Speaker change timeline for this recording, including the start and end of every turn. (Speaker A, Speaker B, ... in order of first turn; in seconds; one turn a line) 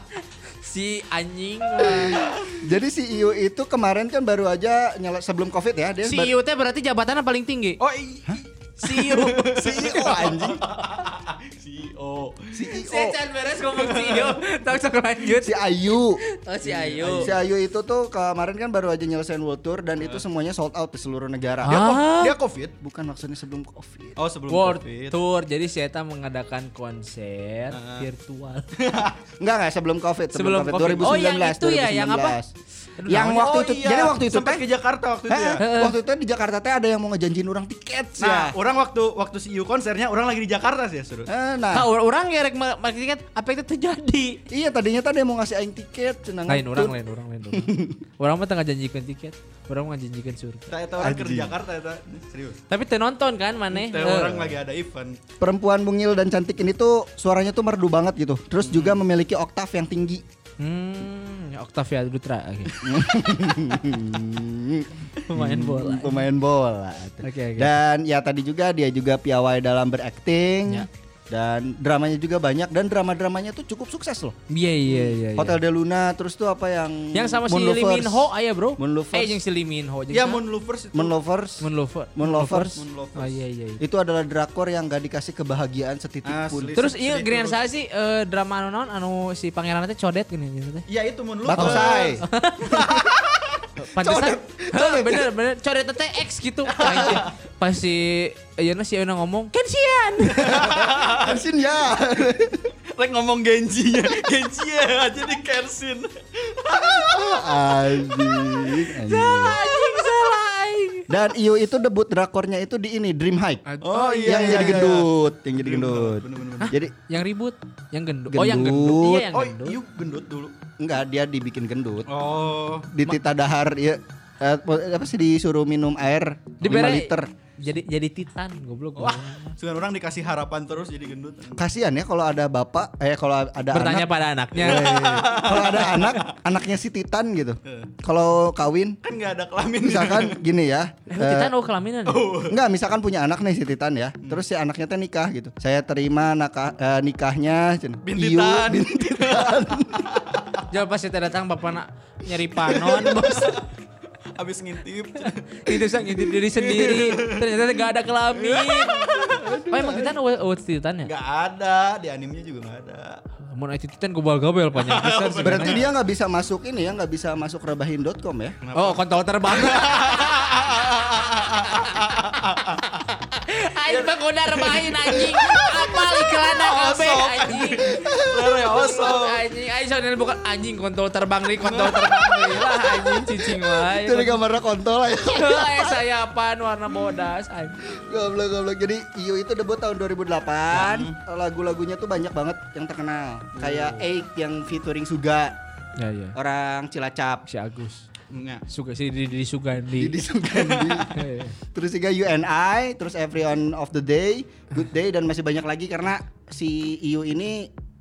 Speaker A: 0.6-2.2
Speaker B: 2.0-2.6
Speaker C: 2.6-6.3
Speaker A: 6.0-7.8
Speaker B: 7.8-12.7
Speaker A: 8.8-9.6
Speaker C: 9.5-10.7
Speaker C: 12.5-13.2
Speaker A: 12.7-15.7
Speaker B: 13.7-14.4
Speaker C: 15.4-16.2
Speaker A: 16.2-17.3
Speaker B: 16.6-17.4
Speaker C: 17.0-22.0
Speaker A: 21.6-22.4
Speaker B: 21.7-22.8
Speaker C: 22.8-24.2
Speaker B: 24.2-25.2
Speaker A: 24.5-28.7
Speaker B: 27.7-28.1
Speaker B: 28.8-29.2
Speaker C: 29.4-32.5
Speaker A: 30.3-32.4
Speaker A: 33.0-33.4
Speaker C: 33.1-34.6
Speaker B: 33.2-35.6
Speaker C: 35.3-38.5
Speaker A: 35.6-36.0
Speaker B: 38.2-41.3
Speaker C: 41.3-41.9
Speaker A: 41.7-44.4
Speaker C: 44.5-46.9
Speaker A: 46.5-50.7
Speaker C: 47.5-48.0
Speaker B: 50.7-52.6
Speaker C: 51.0-51.5
Speaker A: 52.7-54.5
Speaker B: 53.7-55.2
Speaker C: 55.4-60.2
Speaker B: 58.6-59.0
Speaker A: 60.6-62.8
Speaker C: 62.8-74.4
Speaker A: 65.2-66.3
Speaker A: 67.2-67.8
Speaker A: 74.5-75.6
Speaker C: 74.9-79.4
Speaker A: 77.1-80.4
Speaker B: 80.1-81.2
Speaker C: 80.9-81.7
Speaker A: 81.6-83.8
Speaker C: 82.2-82.8
Speaker B: 82.7-83.4
Speaker C: 83.8-86.8
Speaker B: 86.2-87.6
Speaker A: 86.8-90.9
Speaker B: 90.9-93.6
Speaker C: 91.5-92.2
Speaker A: 91.6-93.0
Speaker A: 93.8-100.7
Speaker C: 94.0-95.3
Speaker B: 96.7-97.3
Speaker B: 100.4-101.4
Speaker C: 100.5-102.7
Speaker B: 102.9-107.4
Speaker C: 106.7-109.6
Speaker A: 108.7-111.1
Speaker C: 111.1-113.6
Speaker A: 113.7-114.9
Speaker B: 113.8-116.7
Speaker C: 114.2-116.9
Speaker A: 116.6-119.8
Speaker C: 118.3-119.2
Speaker B: 119.3-120.6
Speaker C: 120.8-122.1
Speaker B: 122.1-122.9
Speaker C: 122.9-127.3
Speaker A: 126.6-129.6
Speaker B: 129.0-131.6
Speaker C: 131.6-139.0
Speaker A: 133.7-135.0
Speaker B: 134.5-136.4
Speaker B: 137.7-137.9
Speaker B: 139.0-140.4
Speaker C: 139.8-141.5
Speaker A: 141.1-142.3
Speaker B: 142.1-142.6
Speaker C: 142.5-150.1
Speaker B: 148.0-150.7
Speaker A: 150.7-153.6
Speaker B: 152.8-153.7
Speaker B: 154.2-157.8
Speaker A: 155.6-161.1
Speaker B: 158.3-159.6
Speaker C: 159.3-160.1
Speaker B: 161.1-163.2
Speaker A: 163.5-165.8
Speaker B: 164.7-165.9
Speaker C: 165.4-168.6
Speaker B: 168.6-173.0
Speaker A: 168.8-170.7
Speaker A: 171.4-172.0
Speaker A: 173.1-178.0
Speaker B: 173.9-179.4
Speaker C: 177.9-178.8
Speaker A: 178.7-184.4
Speaker B: 181.6-182.9
Speaker C: 183.1-186.0
Speaker A: 185.3-187.8
Speaker C: 187.9-195.5
Speaker B: 190.7-191.2
Speaker A: 196.0-196.3
Speaker C: 196.3-197.4
Speaker A: 197.5-198.1
Speaker B: 198.3-198.6
Speaker A: 198.7-200.2
Speaker C: 200.0-201.1
Speaker B: 200.5-201.3
Speaker A: 201.2-201.6
Speaker C: 201.7-207.7